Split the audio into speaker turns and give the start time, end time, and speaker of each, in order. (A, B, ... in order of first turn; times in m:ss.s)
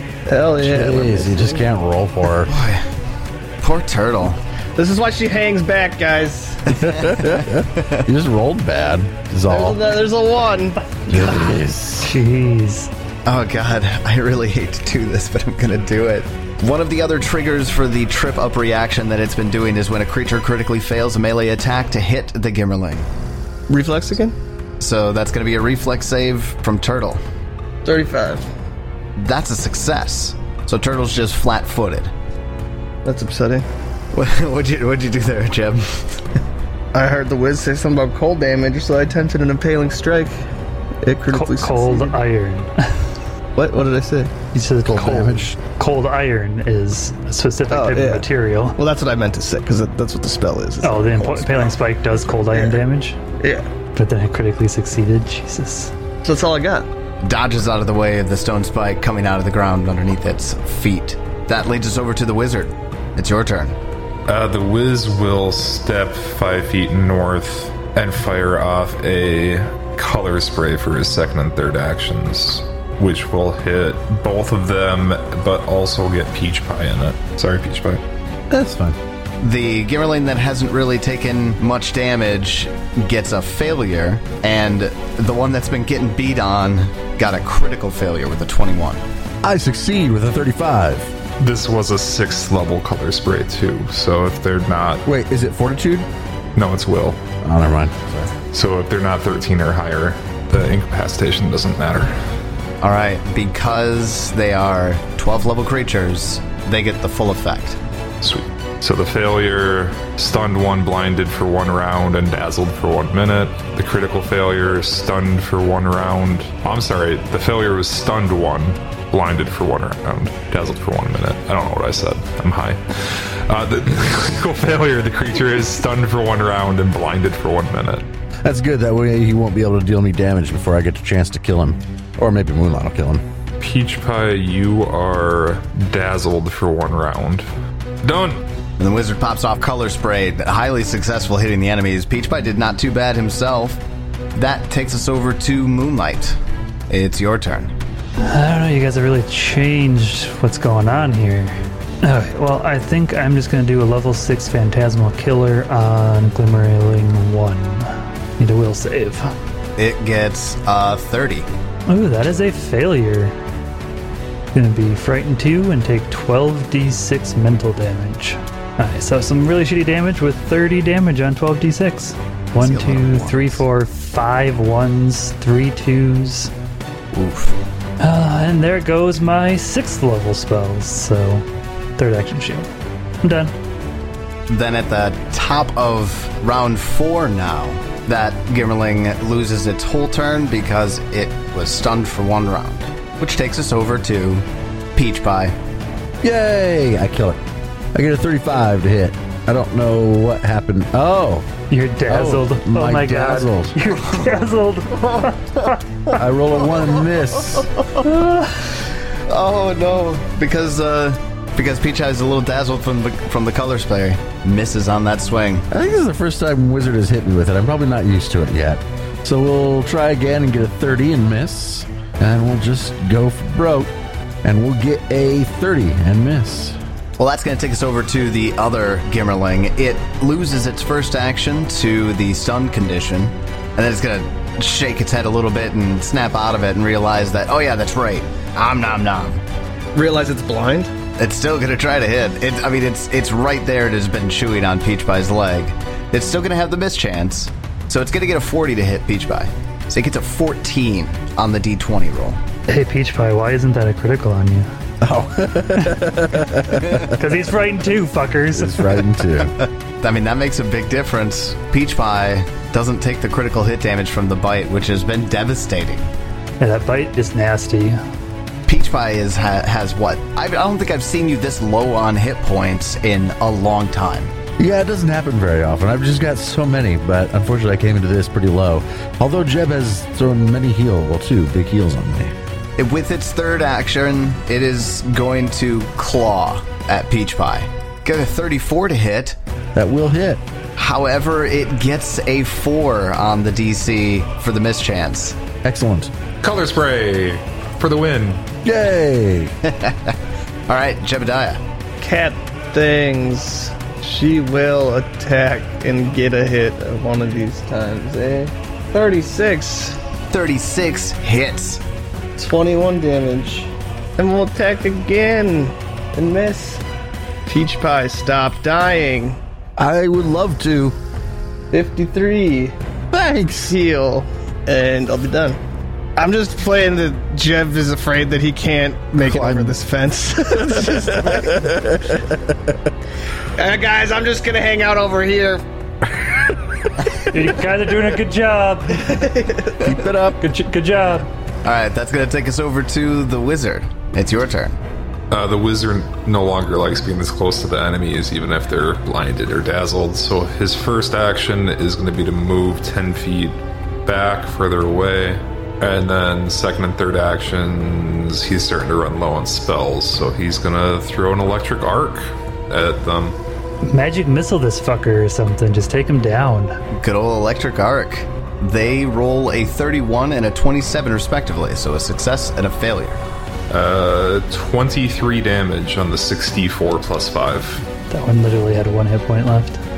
0:00.3-0:01.6 A
0:00.6-0:02.5 B
0:02.5-0:02.8 C
0:03.6-0:04.4 C
0:04.8-0:06.8 A
0:06.8-0:09.8 B
0:07.0-0:08.1 C
0:09.5-0:11.4 A
0:11.1-0:12.1 B
0:12.0-0:12.9 D
0:13.3-0:23.1 C
0:23.7-0:24.4 A
0:24.8-0:27.2 C
0:27.8-0:28.5 A
0:29.2-0:32.1 C
0:33.0-0:33.7 A
0:34.1-0:36.2 C
0:36.9-0:40.4 A
0:41.0-0:42.2 A
0:41.3-0:43.0 D
0:43.6-0:44.3 A
0:44.5-0:48.8 D
0:44.8-0:45.6 B
0:47.7-0:51.8 A
0:50.8-0:53.2 D
0:52.4-0:52.8 A
0:53.4-0:53.7 A
0:54.0-0:55.9 D
0:56.2-0:56.9 A
0:57.2-1:03.8 C
1:04.3-1:18.0 E
1:18.5-1:19.0 B
1:19.4-1:29.0 C
1:29.4-1:31.1 B
1:31.4-1:35.0 E
1:35.0-1:36.1 B
1:36.6-1:37.2 E
1:37.4-1:38.3 B
1:38.5-1:42.2 E
1:42.8-1:47.8 C
1:48.2-2:08.0 E
2:08.4-2:13.2 B
2:13.6-2:17.5 E
2:18.0-2:18.4 E
2:18.8-2:23.8 C
2:24.4-2:26.4 C
2:26.9-2:27.7 C
2:28.2-2:39.3 D
2:39.8-2:41.5 C
2:41.9-2:43.4 D
2:44.5-2:56.5 D
2:52.6-2:53.6 C
2:57.1-2:57.6 C
2:58.0-3:01.5 D
3:02.0-3:02.7 D
3:03.2-3:03.5 D
3:04.5-3:14.4 C
3:15.0-3:15.6 C
3:16.2-3:17.4 B
3:17.9-3:21.5 B
3:21.7-3:25.8 D
3:22.1-3:23.8 B
3:26.1-3:27.7 B
3:28.0-3:28.8 D
3:29.3-3:35.7 C
3:35.7-3:43.9 B
3:44.4-3:46.8 B
3:47.2-3:59.4 C
3:59.9-4:00.9 A
4:01.2-4:12.4 C
4:12.7-4:14.7 D
4:15.0-4:17.1 B
4:15.8-4:16.1 D
4:17.0-4:19.0 D
4:18.5-4:19.6 B
4:20.0-4:26.1 C
4:26.6-4:28.0 D
4:28.7-4:34.3 C
4:34.6-4:42.3 B
4:42.8-4:49.4 C
4:49.8-4:50.4 B
4:50.8-4:55.4 C
4:55.6-4:56.1 B
4:56.4-4:58.4 E
4:58.6-4:59.6 B
4:59.6-5:00.2 C
5:00.7-5:01.6 C
5:02.0-5:10.0 A
5:10.3-5:11.8 C
5:12.4-5:16.8 A
5:17.5-5:19.4 A
5:19.8-5:21.0 B
5:21.7-5:22.8 A
5:23.1-5:23.8 B
5:23.7-5:25.6 A
5:26.2-5:31.9 A
5:29.2-5:29.8 B
5:30.8-5:32.8 B
5:33.6-5:35.6 A
5:37.3-5:39.3 D
5:39.1-5:39.9 A
5:39.8-5:40.4 B
5:40.4-5:41.3 D
5:41.6-5:44.8 C
5:45.3-6:03.4 E
6:03.8-6:06.8 D
6:06.9-6:13.2 C
6:13.7-6:17.8 E
6:18.1-6:19.8 D